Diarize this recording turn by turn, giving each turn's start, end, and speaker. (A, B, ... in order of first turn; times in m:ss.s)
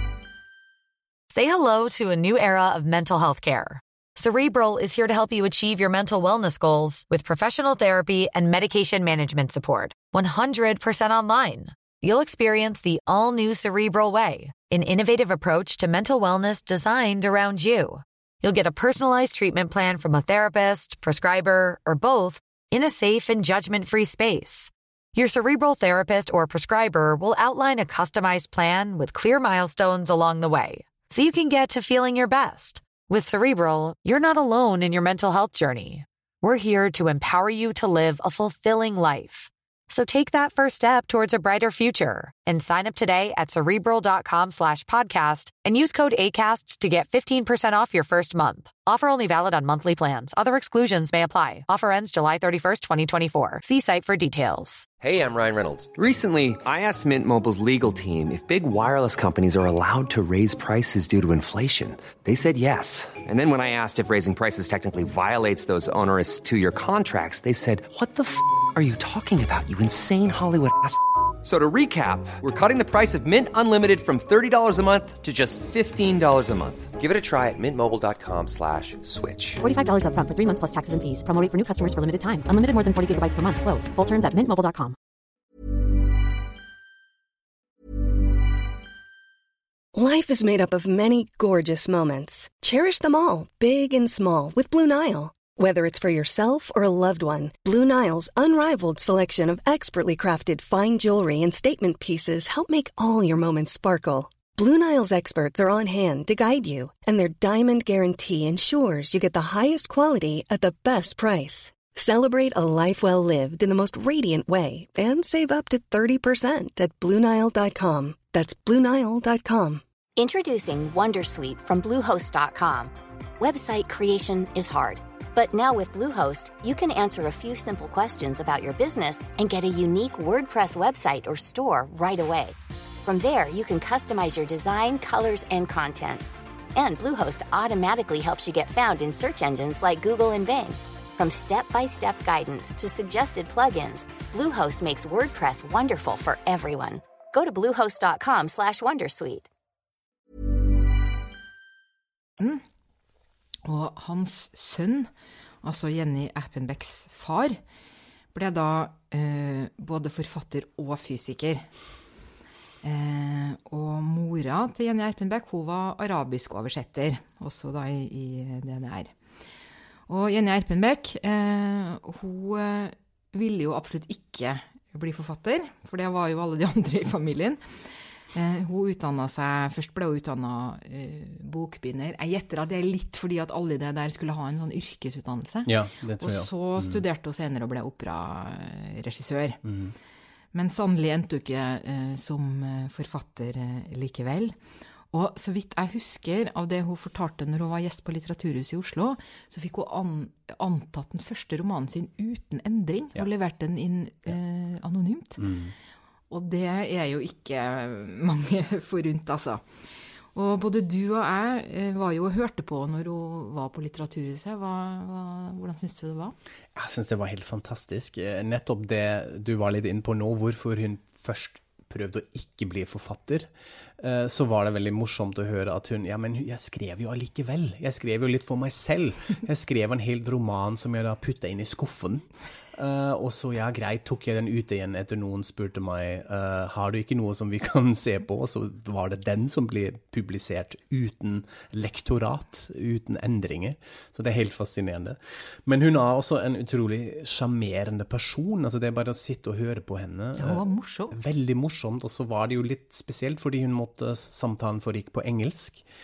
0:01.3-0:54.9 A
0:55.0-1:19.6 B
1:19.6-1:24.9 C
1:29.9-1:59.8 D
2:00.2-2:16.2 E
2:16.7-2:29.5 E
2:33.6-2:35.1 F
2:35.6-2:37.6 F
2:38.3-2:41.7 F
2:42.8-2:49.1 F
2:50.1-3:09.6 F
3:05.6-3:07.0 G
3:09.6-3:09.9 G
3:10.5-3:14.6 F
3:15.1-3:25.5 F
3:25.4-3:25.7 G
3:26.3-3:29.6 F
3:30.3-3:36.3 F
3:36.7-4:15.8 G
4:10.4-4:11.2 F